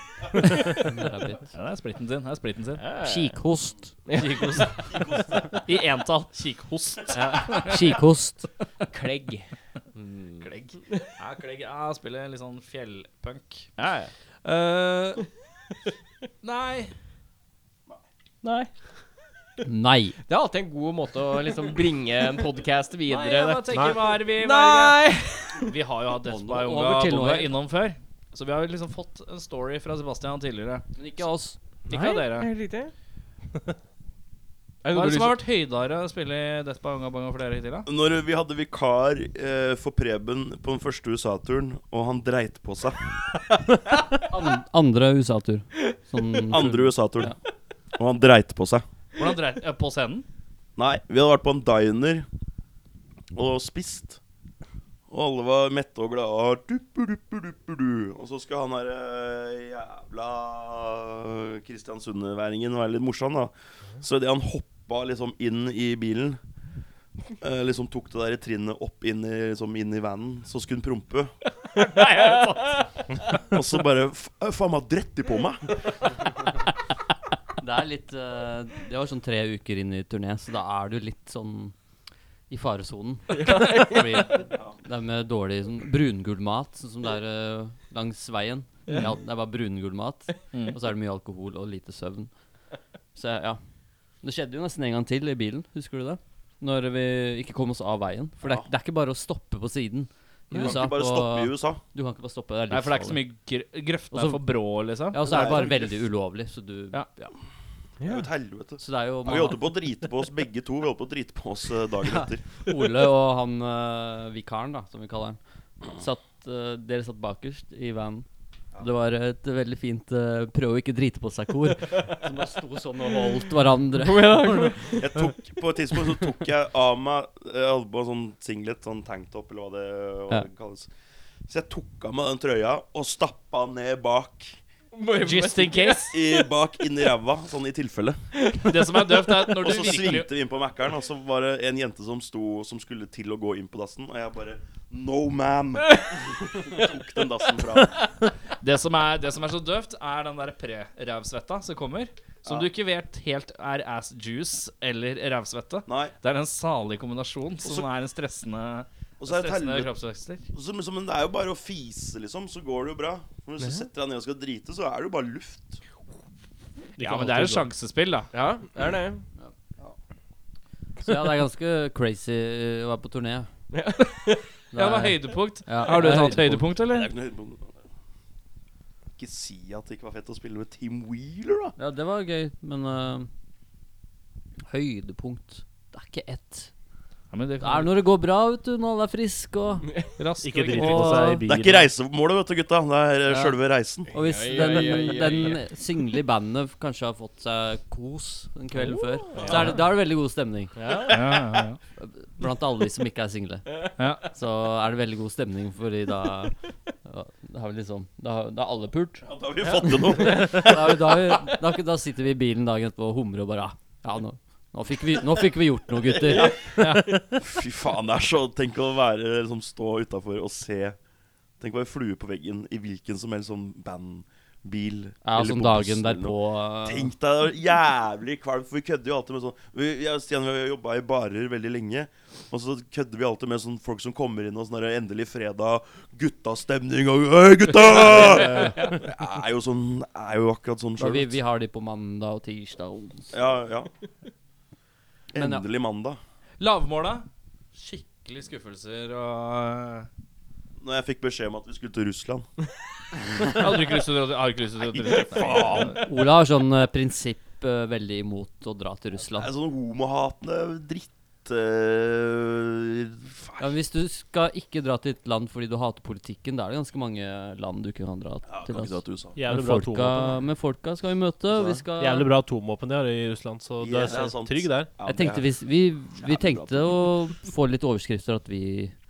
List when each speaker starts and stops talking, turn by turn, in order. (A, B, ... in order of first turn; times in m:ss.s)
0:00.4-0:01.5 A
0:01.5-0:02.8 B
0:02.8-0:03.4 C
0:03.0-0:04.0 A
0:04.1-0:04.6 C
0:04.1-0:04.9 B
0:04.8-0:05.6 D
0:05.6-0:07.9 B
0:07.6-0:08.5 A
0:08.9-0:11.1 C
0:10.4-0:15.3 B
0:16.4-0:16.9 B
0:18.4-0:18.7 C
0:19.6-0:20.2 A
0:20.3-0:25.7 C
0:23.1-0:25.0 B
0:23.7-0:24.0 E
0:25.6-0:30.8 B
0:26.2-0:27.5 A
0:31.0-0:31.6 A
0:31.9-0:32.5 B
0:31.9-0:32.9 C
0:34.8-0:35.4 C
0:34.9-0:37.9 B
0:37.9-0:43.0 D
0:44.2-0:47.4 A
0:46.5-0:47.4 D
0:47.9-0:48.8 D
0:49.2-0:50.2 B
0:50.8-0:52.3 D
0:53.3-0:54.2 D
0:55.1-1:06.4 D
1:07.4-1:11.3 D
1:11.8-1:12.9 B
1:13.5-1:15.8 D
1:17.6-1:21.7 A
1:22.5-1:32.3 A
1:23.3-1:24.3 C
1:33.2-1:33.6 A
1:34.2-1:43.2 A
1:38.4-1:38.7 D
1:40.5-1:41.8 D
1:42.7-1:45.4 B
1:44.1-1:44.4 A
1:45.1-1:47.3 A
1:45.2-1:46.0 D
1:48.0-1:48.3 C
1:48.0-1:52.6 D
1:48.8-1:49.6 A
1:52.0-1:55.4 A
1:55.9-1:58.3 A
1:58.8-2:04.8 A
2:04.0-2:05.1 C
2:05.0-2:10.9 D
2:11.5-2:14.6 D
2:14.9-2:16.4 C
2:15.2-2:16.2 B
2:16.1-2:18.3 D
2:18.4-2:19.4 C
2:18.6-2:20.3 B
2:19.6-2:28.1 D
2:28.6-2:40.4 B
2:35.9-2:36.1 D
2:39.2-2:39.9 D
2:40.5-2:45.8 D
2:43.6-2:43.9 C
2:47.0-2:47.7 E
2:47.0-2:48.3 B
2:48.3-2:49.2 C
2:51.0-2:53.5 A
2:53.7-2:54.5 C
2:54.7-2:56.7 A
2:54.7-2:57.1 B
2:56.8-2:57.8 D
2:59.2-3:01.8 D
3:01.8-3:03.3 A
3:04.7-3:06.7 A
3:07.3-3:07.9 B
3:07.6-3:10.0 A
3:10.2-3:11.4 B
3:10.4-3:11.9 E
3:10.7-3:11.4 A
3:11.4-3:14.1 D
3:13.3-3:13.6 A
3:14.1-3:15.6 C
3:14.1-3:21.2 A
3:18.8-3:19.8 C
3:19.4-3:19.7 B
3:20.8-3:21.3 C
3:21.1-3:21.8 B
3:22.0-3:29.2 A
3:24.0-3:24.3 B
3:29.2-3:31.4 D
3:29.8-3:37.2 A
3:30.1-3:30.7 C
3:36.2-3:41.0 D
3:41.6-4:01.4 D
3:45.2-3:47.1 A
3:57.8-3:59.0 B
3:57.9-3:58.8 A
4:01.0-4:03.3 A
4:03.3-4:03.9 D
4:05.3-4:06.2 D
4:05.4-4:05.6 A
4:06.6-4:10.1 B
4:10.8-4:12.5 D
4:13.5-4:16.0 B
4:14.9-4:16.1 D
4:15.7-4:19.5 A
4:19.3-4:23.7 D
4:23.6-4:32.3 A
4:28.5-4:29.4 D
4:29.4-4:30.4 E
4:31.5-4:31.8 D
4:32.0-4:34.9 E
4:33.8-4:35.6 D
4:35.0-4:38.9 A
4:36.2-4:37.1 D